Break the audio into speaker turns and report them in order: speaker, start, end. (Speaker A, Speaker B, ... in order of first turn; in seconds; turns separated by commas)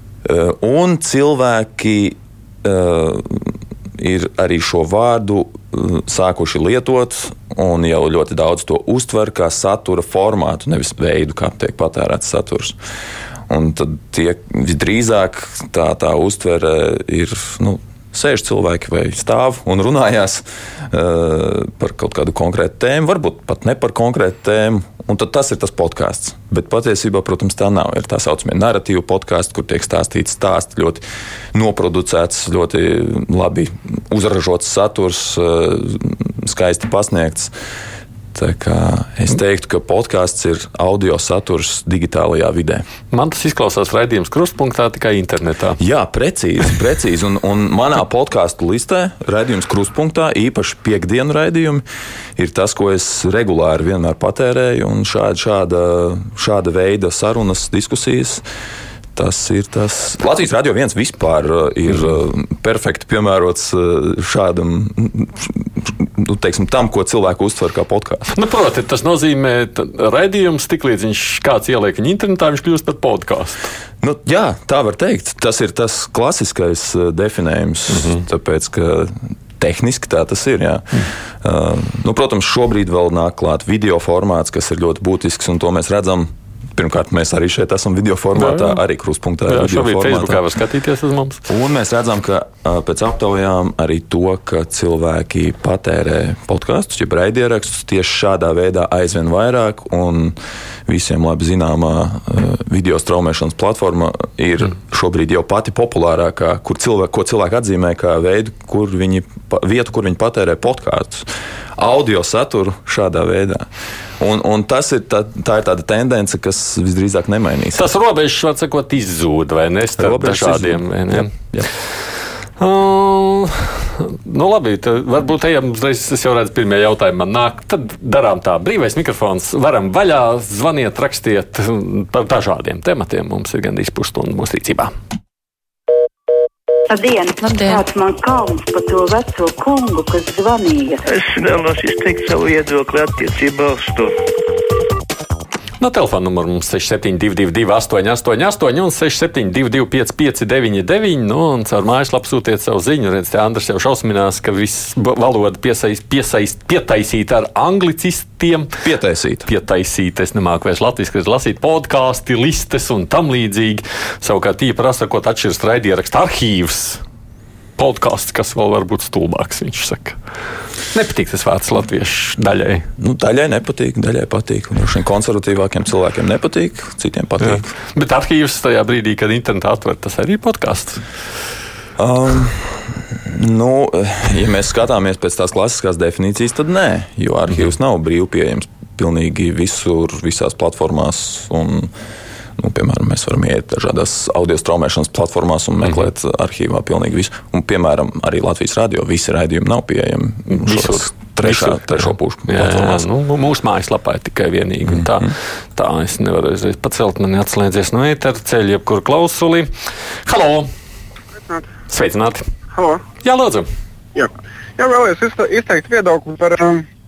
Speaker A: 0.2-12.8, Speaker A: 13.5-37.5, Speaker A: 38.3-42.9, Speaker B: 43.1-45.8, Speaker A: 45.8-51.9, Speaker A: 52.4-58.5, Speaker A: 59.2-68.3, Speaker B: 68.3-73.7, Speaker A: 74.0-90.4, Speaker B: 77.9-78.2, Speaker B: 88.4-88.8, Speaker B: 89.5-91.4, Speaker A: 91.5-117.9, Speaker B: 117.8-121.3, Speaker A: 120.0-121.7, Speaker B: 122.6-134.9, Speaker C: 136.9-141.0, Speaker D: 141.1-144.2, Speaker B: 145.8-158.8, Speaker A: 158.8-159.5, Speaker B: 159.4-167.0, Speaker B: 167.8-170.2, Speaker B: 170.9-172.9, Speaker A: 173.0-177.7, Speaker B: 177.4-181.0, Speaker A: 182.0-191.9, Speaker A: 192.6-203.1, Speaker B: 200.5-209.7, Speaker A: 204.9-205.3, Speaker B: 210.3-210.7, Speaker B: 211.9-212.4, Speaker E: 212.8-213.0, Speaker B: 213.2-213.7, Speaker E: 214.2-216.8